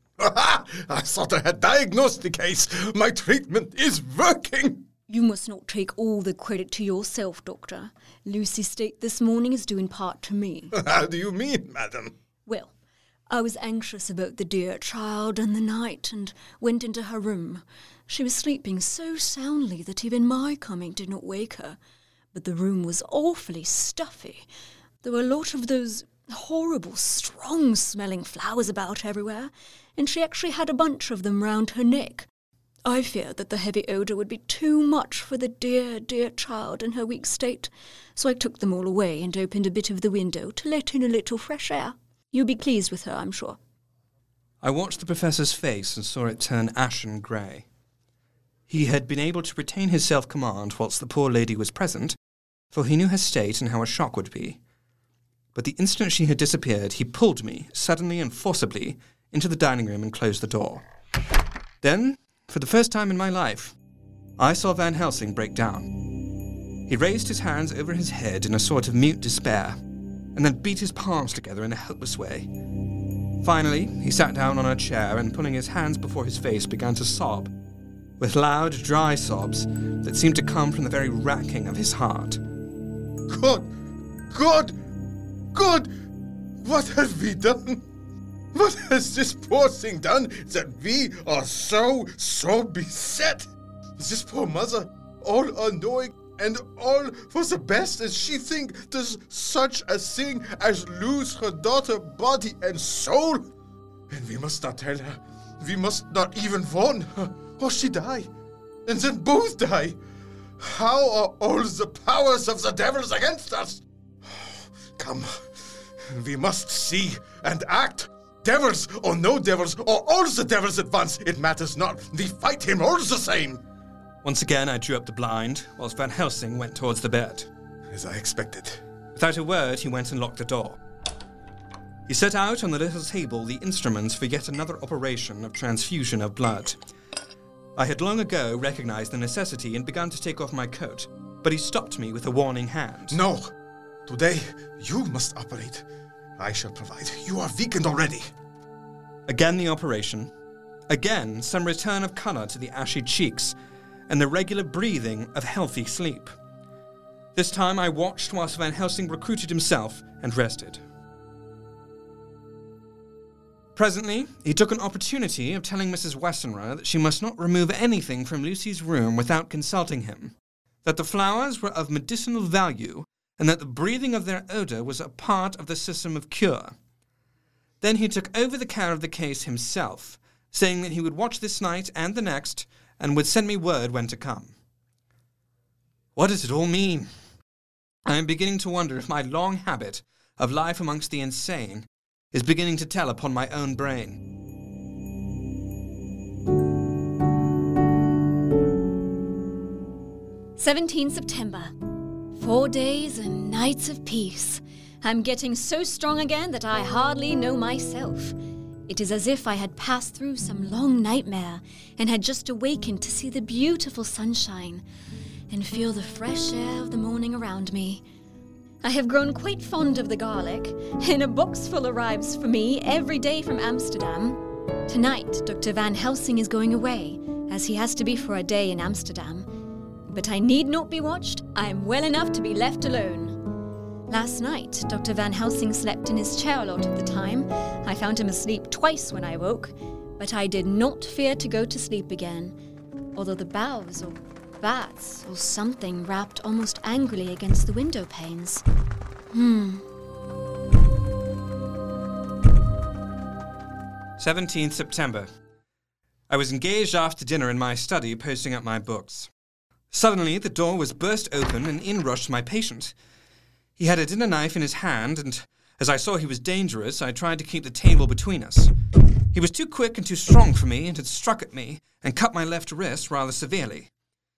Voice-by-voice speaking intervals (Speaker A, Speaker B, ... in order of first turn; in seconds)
Speaker A: 0.2-4.9, 10.7-12.2, 83.3-83.7, 84.3-84.8, 85.5-85.9, 86.6-87.9, 88.5-103.5, 104.1-108.3, 108.9-110.0, 110.6-123.6, 127.9-128.8, 143.1-143.5, 144.1-145.9, 146.4-148.3
Speaker B: 5.1-10.8, 12.5-12.7, 13.3-21.8, 22.3-24.5, 25.0-32.3, 32.9-43.6, 200.6-201.7, 202.3-208.4, 208.9-214.8, 215.5-218.0, 218.8-229.5, 230.1-233.4, 234.1-242.6, 243.2-248.6, 249.3-249.8
Speaker C: 44.6-47.6, 48.7-52.2, 52.7-54.6, 55.5-60.9, 61.8-63.8, 64.4-65.9, 66.9-69.8, 70.3-72.5, 73.4-77.5, 78.2-82.4, 124.2-127.5, 129.2-130.8, 132.1-136.8, 137.8-143.2, 149.3-150.3, 150.9-153.6, 154.1-156.3, 157.3-160.8, 163.8-170.3, 170.8-176.8, 177.8-184.5, 186.2-187.1, 188.1-194.2, 254.2-255.3, 256.3-259.3, 259.9-262.9, 263.8-268.7, 269.3-273.9